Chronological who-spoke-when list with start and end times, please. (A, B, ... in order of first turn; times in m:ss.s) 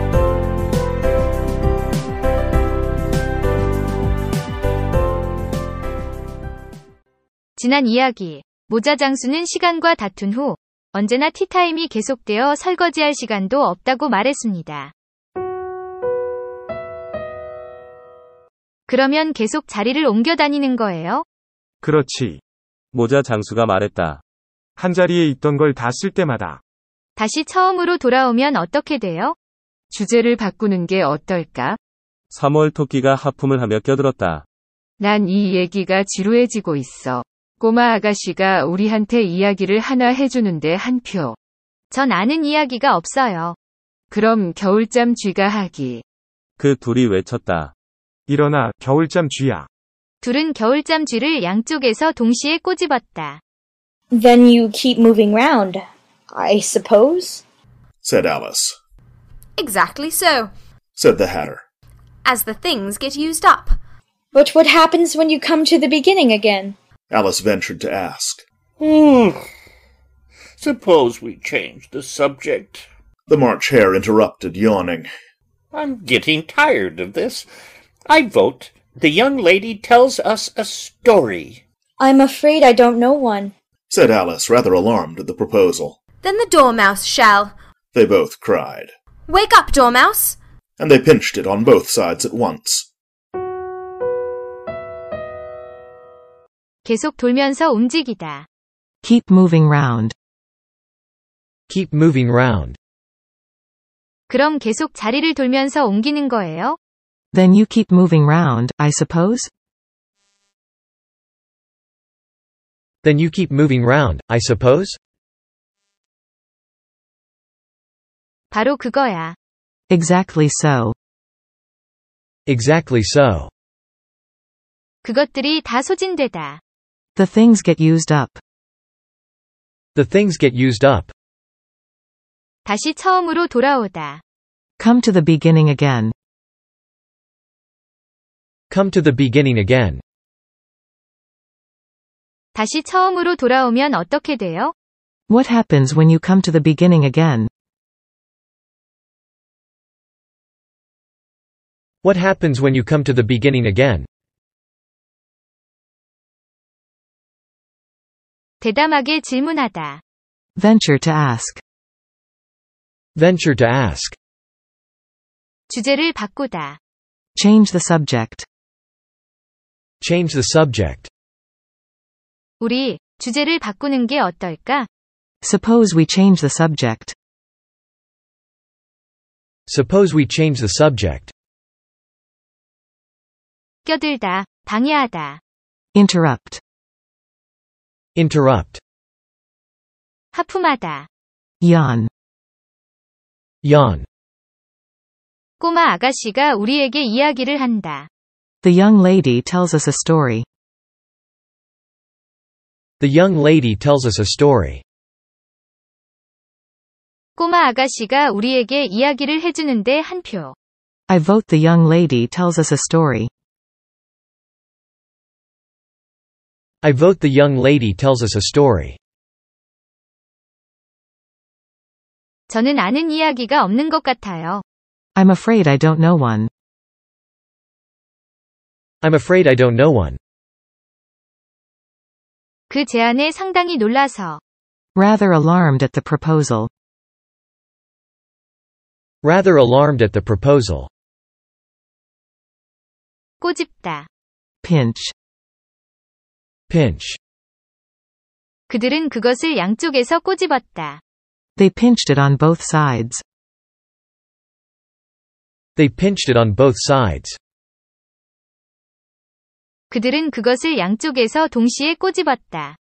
0:07.6-0:14.9 A
0:18.9-0:21.2 A
0:21.8-0:22.4 B
0:22.9-0:24.2 C
0:24.8-0:26.6 B
0:27.2-0:29.4 A
0:29.9-0:31.8 D
0:32.3-0:34.4 C
0:35.0-0:41.4 D
0:41.9-0:43.6 A
0:44.1-0:46.0 D
0:46.6-0:47.7 C
0:48.3-0:49.7 B
0:50.2-0:53.4 A
0:54.1-0:57.4 E
0:58.1-0:58.7 F
0:59.6-1:00.5 G
1:02.2-1:03.8 G
1:04.3-1:06.8 E
1:07.4-1:08.3 F
1:08.8-1:09.4 H
1:10.6-1:12.9 H
1:13.3-1:15.1 F
1:15.7-1:17.5 H
1:18.1-1:21.6 H
1:22.0-1:23.5 E
1:25.7-1:26.0 F
1:26.2-1:27.5 G
1:29.3-1:30.4 G
1:30.8-1:32.6 F
1:36.8-1:38.5 A
1:39.0-1:40.1 I
1:41.7-1:42.8 J
1:44.3-1:46.8 A
1:47.3-1:49.5 I
1:53.0-1:55.0 J
1:58.5-1:59.4 A
1:59.9-2:00.9 I
2:02.5-2:03.5 J
2:05.0-2:06.6 A
2:07.2-2:08.4 I
2:09.9-2:11.1 J
2:12.6-2:14.2 A
2:14.8-2:16.1 I
2:18.7-2:20.0 J
2:22.5-2:24.7 A
2:25.3-2:27.5 I
2:32.0-2:34.1 J
2:38.6-2:40.0 A
2:40.6-2:41.6 I
2:43.2-2:44.2 J
2:45.7-2:46.8 A
2:47.3-2:48.4 I
2:50.0-2:51.1 J
2:52.6-2:54.9 A
2:55.4-2:57.2 I
2:59.7-3:01.3 J
3:03.8-3:05.4 A
3:05.9-3:06.6 I
3:08.2-3:08.8 J
3:10.3-3:11.1 A
3:11.6-3:12.1 I
3:13.6-3:14.1 J
3:15.6-3:18.1 A
3:18.6-3:20.4 I
3:23.0-3:24.8 J
3:27.4-3:30.5 A
3:31.1-3:33.3 I
3:36.8-3:39.0 J
3:42.5-3:44.6 A
3:45.2-3:46.5 I
3:49.0-3:50.2 J
3:52.7-3:54.4 A
3:54.9-3:56.7 I
3:59.2-4:00.9 J
4:03.4-4:04.1 A
4:04.6-4:05.1 I
4:06.7-4:07.2 J
4:08.7-4:11.0 A
4:11.6-4:13.2 I
4:15.8-4:17.4 J
4:19.9-4:22.8 A